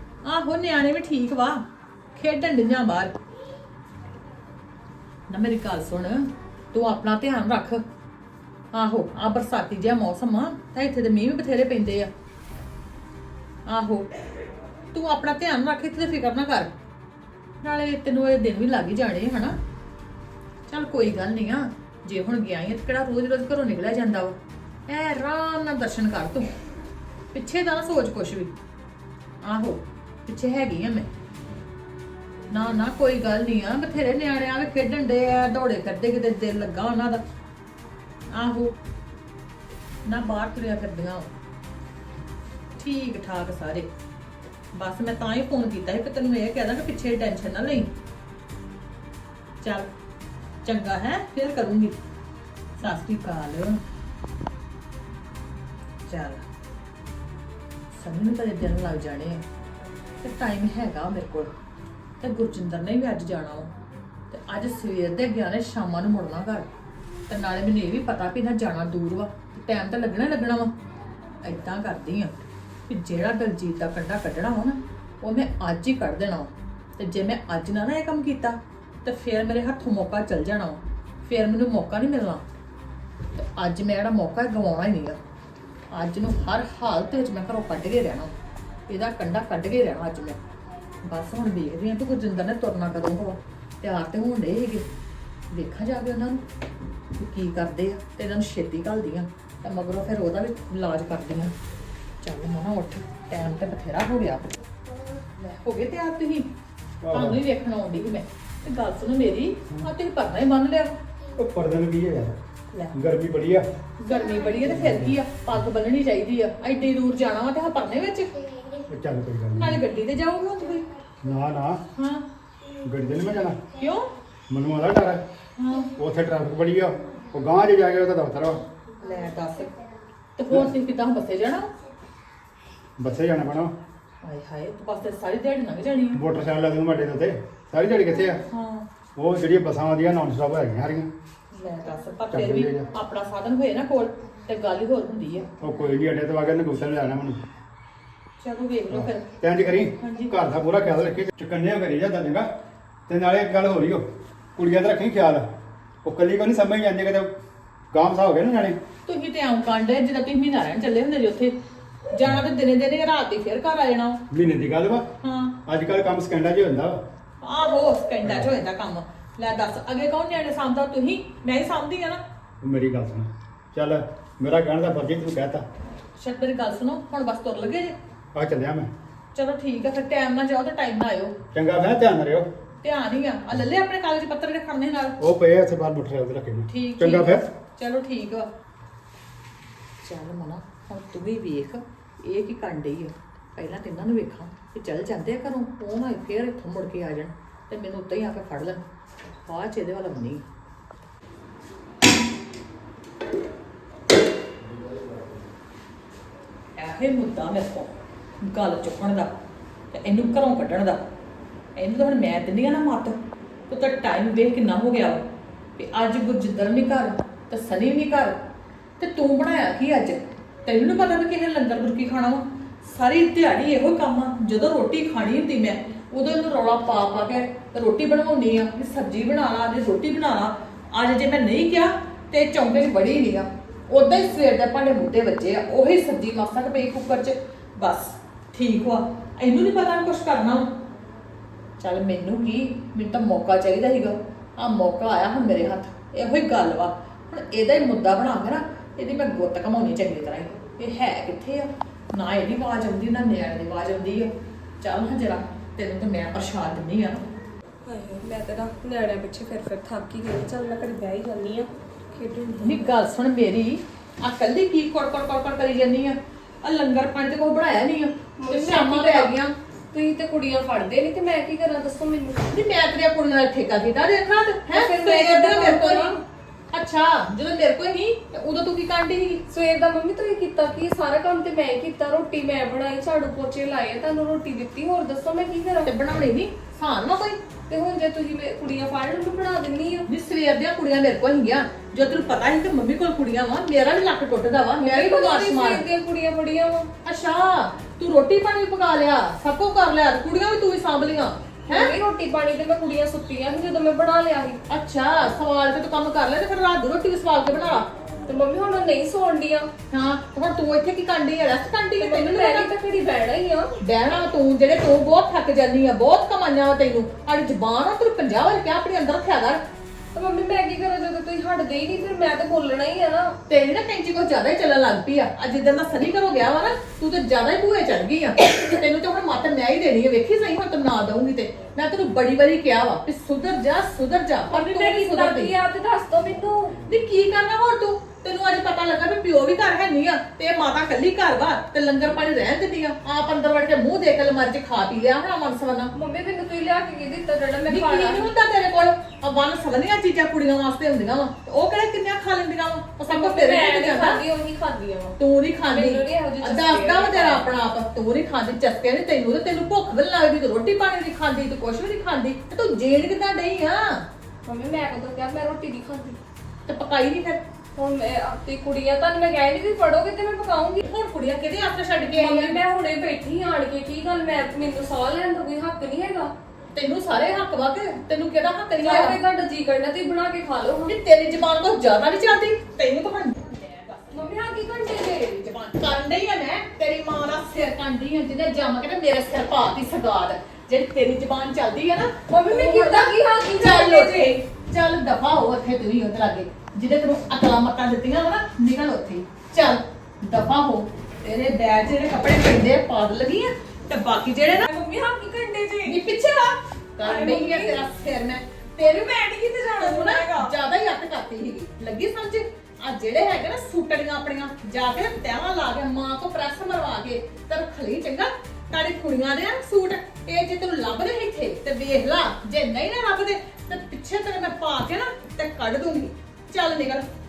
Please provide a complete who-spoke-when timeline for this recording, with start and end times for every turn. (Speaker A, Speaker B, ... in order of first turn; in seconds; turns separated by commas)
Speaker A: 0.2-1.6, Speaker A: 2.2-3.1, Speaker A: 5.3-7.8, Speaker A: 8.7-12.1, Speaker A: 13.7-14.1, Speaker A: 14.9-16.7, Speaker A: 17.6-19.6, Speaker A: 20.7-24.4, Speaker A: 24.9-26.5, Speaker A: 27.3-28.6, Speaker A: 29.4-31.1, Speaker A: 32.5-37.2, Speaker A: 38.3-38.7, Speaker A: 40.1-41.3, Speaker A: 42.8-43.9, Speaker A: 44.8-47.9, Speaker A: 49.6-49.9, Speaker A: 50.6-52.0, Speaker A: 52.8-53.8, Speaker A: 56.1-56.5, Speaker A: 58.0-59.4, Speaker A: 60.2-61.5, Speaker A: 62.2-63.7, Speaker A: 64.3-66.7, Speaker A: 67.3-70.7, Speaker A: 71.4-72.3, Speaker A: 72.9-82.4, Speaker A: 83.3-85.2, Speaker A: 85.9-88.3, Speaker A: 88.9-90.4, Speaker A: 91.1-94.8, Speaker A: 95.5-96.4, Speaker A: 97.2-101.5, Speaker A: 102.2-104.4, Speaker A: 105.4-106.5, Speaker B: 107.0-107.4, Speaker A: 107.1-111.0, Speaker B: 111.4-112.4, Speaker B: 112.9-113.7, Speaker A: 114.0-118.4, Speaker B: 114.6-115.2, Speaker B: 118.9-119.8, Speaker A: 119.6-120.8, Speaker B: 121.2-121.8, Speaker A: 122.0-122.2, Speaker B: 122.8-123.6, Speaker A: 123.8-124.1, Speaker B: 124.5-125.2, Speaker A: 125.6-125.9, Speaker B: 126.0-128.6, Speaker A: 129.0-129.7, Speaker A: 130.4-131.7, Speaker B: 133.0-133.7, Speaker A: 134.2-136.2, Speaker B: 136.1-138.4, Speaker A: 138.5-138.9, Speaker B: 139.2-141.1, Speaker A: 141.5-145.5, Speaker B: 142.3-142.9, Speaker B: 145.6-147.4, Speaker A: 148.4-149.3, Speaker B: 148.9-152.5, Speaker A: 150.0-150.3, Speaker B: 153.1-154.1, Speaker B: 154.6-155.5, Speaker B: 156.0-157.3, Speaker B: 157.9-158.8, Speaker A: 159.1-161.6, Speaker A: 162.1-164.2, Speaker B: 164.3-165.1, Speaker A: 165.2-165.6, Speaker B: 165.7-167.0, Speaker A: 167.4-172.2, Speaker B: 172.6-175.6, Speaker A: 176.2-177.9, Speaker B: 178.3-178.9, Speaker A: 179.3-181.3, Speaker B: 181.5-182.5, Speaker A: 182.8-185.2, Speaker B: 185.2-187.4, Speaker A: 186.7-188.5, Speaker A: 190.0-198.8, Speaker A: 199.5-200.4, Speaker A: 206.8-207.9, Speaker A: 208.4-209.3, Speaker A: 209.9-211.1, Speaker A: 211.8-213.2, Speaker A: 213.7-215.2, Speaker A: 215.8-218.4, Speaker A: 219.0-240.7, Speaker A: 241.8-257.2, Speaker C: 257.9-262.9, Speaker A: 262.6-269.5, Speaker C: 268.4-269.3, Speaker C: 269.9-272.5, Speaker A: 272.5-276.2, Speaker C: 274.7-276.2, Speaker A: 276.7-279.4, Speaker C: 279.5-285.9, Speaker A: 285.9-287.4, Speaker C: 287.7-290.1, Speaker A: 290.1-295.8, Speaker C: 294.8-296.9, Speaker A: 297.1-302.0, Speaker C: 301.7-304.6, Speaker A: 304.7-307.9, Speaker C: 308.3-309.7, Speaker A: 309.9-312.7, Speaker C: 312.0-313.7, Speaker A: 313.8-319.6, Speaker C: 320.1-323.3, Speaker A: 323.5-335.5, Speaker C: 334.5-336.7, Speaker A: 336.9-345.9, Speaker C: 345.9-348.3, Speaker A: 347.7-354.2, Speaker C: 353.1-355.1, Speaker A: 355.2-364.1, Speaker C: 355.7-357.5, Speaker C: 364.4-366.2, Speaker A: 366.7-367.4, Speaker C: 367.8-370.8, Speaker A: 370.9-372.6, Speaker C: 372.1-376.3, Speaker A: 376.7-379.2, Speaker C: 378.8-380.9, Speaker A: 380.9-384.3, Speaker C: 384.1-385.4, Speaker A: 385.4-404.7, Speaker C: 392.3-394.4, Speaker C: 404.7-406.0, Speaker A: 405.9-409.1, Speaker C: 407.0-407.8, Speaker C: 408.8-410.5, Speaker A: 409.8-427.1